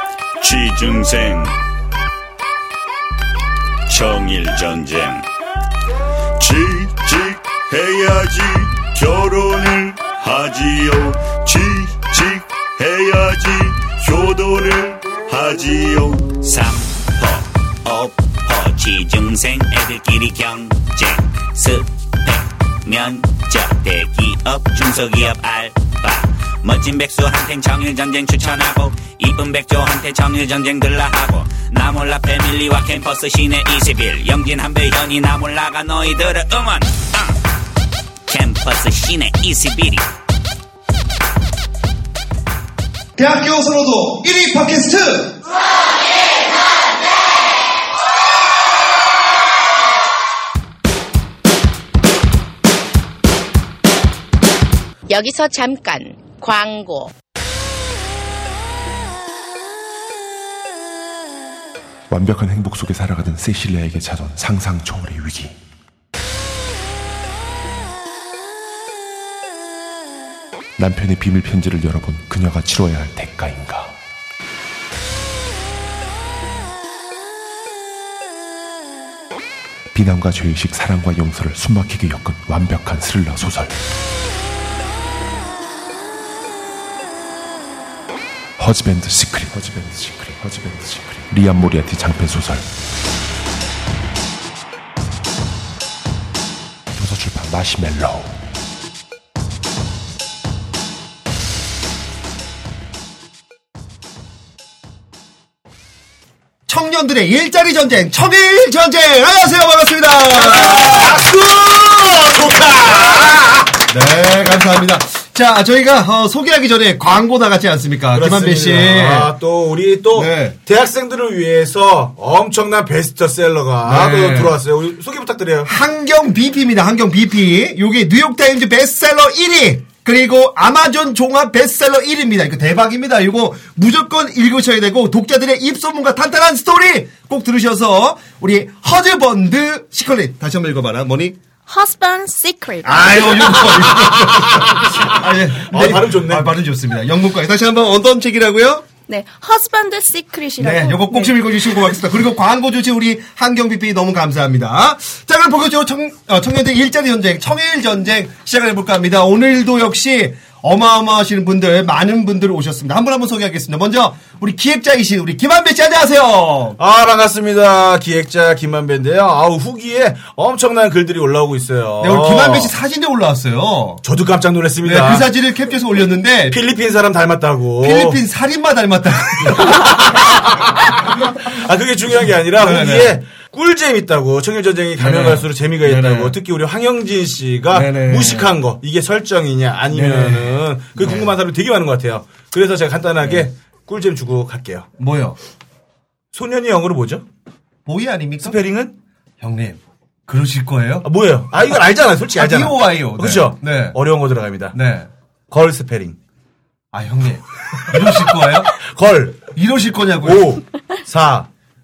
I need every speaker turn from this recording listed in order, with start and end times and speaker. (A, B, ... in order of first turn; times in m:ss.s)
0:00.4-0:01.6 A
0:03.9-0:05.3 A
0:06.4-0:16.4 A
0:16.3-0:37.3 B
0:38.3-0:40.1 B
0:43.2-0:45.3 C
0:55.1-0:57.1 D
1:02.1-1:05.5 E
1:10.8-1:14.0 E
1:19.9-1:23.8 E
1:28.6-1:32.7 E
1:36.9-1:38.4 E
1:46.7-1:51.3 C
1:50.3-1:53.6 F
1:53.9-1:59.3 C
1:58.1-2:05.7 F
2:00.1-2:00.6 C
2:03.8-2:04.6 C
2:05.6-2:21.4 C
2:21.7-2:23.4 G
2:22.8-2:28.8 C
2:25.6-2:26.5 F
2:29.1-2:31.9 G
2:30.6-2:46.8 C
2:46.8-2:52.7 F
2:52.0-2:54.0 C
2:54.0-2:55.3 F
2:54.8-2:56.6 C
2:56.5-2:58.2 F
2:57.8-3:00.2 C
3:01.4-3:14.9 F
3:02.6-3:03.2 C
3:05.0-3:06.4 C
3:07.7-3:08.5 C
3:09.9-3:11.3 C
3:15.0-3:15.4 C
3:16.3-3:17.2 F
3:17.8-3:18.6 C
3:18.4-3:18.9 F
3:19.4-3:21.1 C
3:21.0-3:24.8 F
3:22.4-3:24.0 C
3:24.7-3:25.1 C
3:25.5-3:26.2 F
3:26.9-3:28.7 C
3:28.7-3:29.5 F
3:29.5-3:30.5 C
3:30.2-3:31.5 F